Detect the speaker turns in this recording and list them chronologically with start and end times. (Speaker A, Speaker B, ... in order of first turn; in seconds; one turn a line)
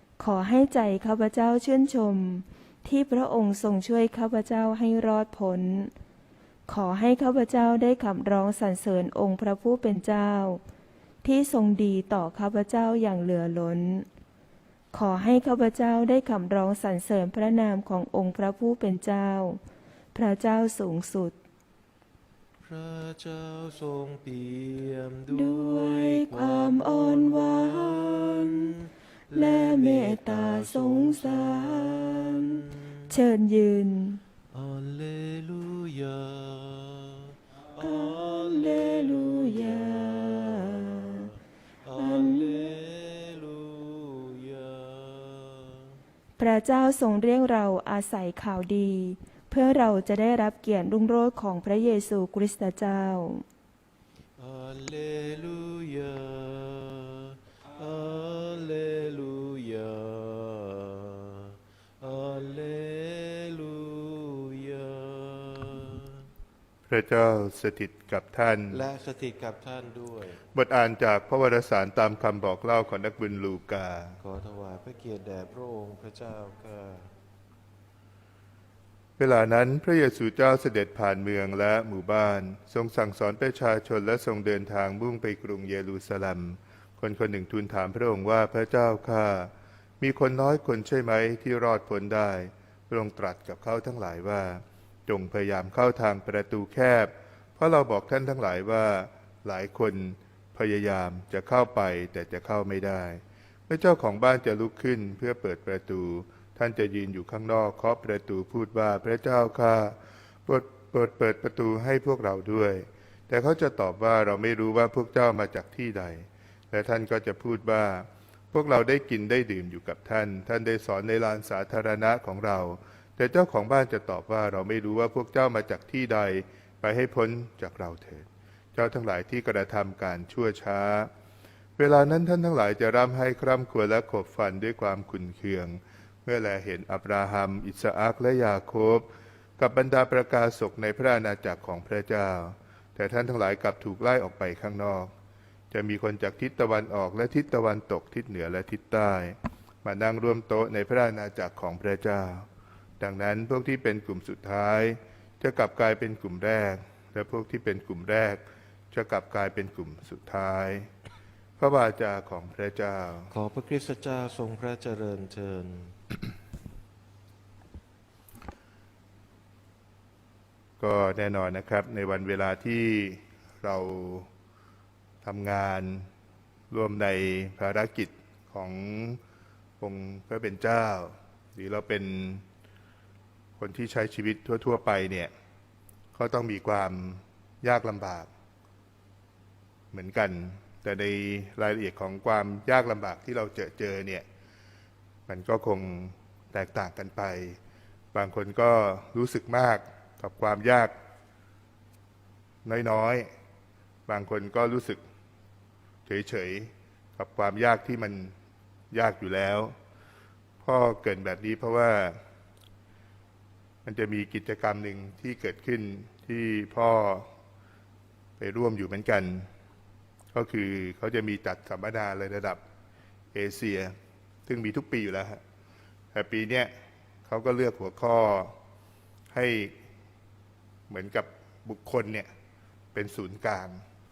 Speaker A: 0.2-5.9
Speaker A: 6.7-10.6
Speaker A: 11.2-14.1
Speaker A: 14.9-19.6
Speaker A: 20.1-21.4
Speaker B: 22.6-32.8
Speaker A: 25.3-28.7
Speaker A: 29.3-34.2
Speaker B: 34.5-46.0
Speaker A: 37.8-41.3
Speaker A: 42.0-42.7
Speaker A: 46.4-53.5
Speaker B: 54.4-66.3
Speaker C: 66.9-68.8
Speaker B: 68.7-70.4
Speaker C: 70.5-74.2
Speaker B: 74.2-77.1
Speaker C: 79.2-131.1
Speaker C: 131.8-139.1
Speaker C: 139.6-145.1
Speaker C: 145.7-152.5
Speaker C: 153.0-160.9
Speaker C: 161.6-163.3
Speaker B: 163.3-166.0
Speaker C: 170.8-174.3
Speaker C: 175.2-176.1
Speaker C: 176.7-179.2
Speaker C: 179.8-182.4
Speaker C: 183.6-185.3
Speaker C: 186.1-188.3
Speaker C: 189.9-194.3
Speaker C: 195.3-197.6
Speaker C: 198.1-200.9
Speaker C: 202.7-203.3
Speaker C: 204.1-205.0
Speaker C: 206.1-208.3
Speaker C: 208.9-209.7
Speaker C: 210.6-212.2
Speaker C: 213.8-217.3
Speaker C: 218.4-219.5
Speaker C: 220.3-222.6
Speaker C: 223.3-223.9
Speaker C: 224.5-225.4
Speaker C: 226.1-226.7
Speaker C: 227.3-228.5
Speaker C: 229.3-229.8
Speaker C: 230.9-232.3
Speaker C: 232.9-233.8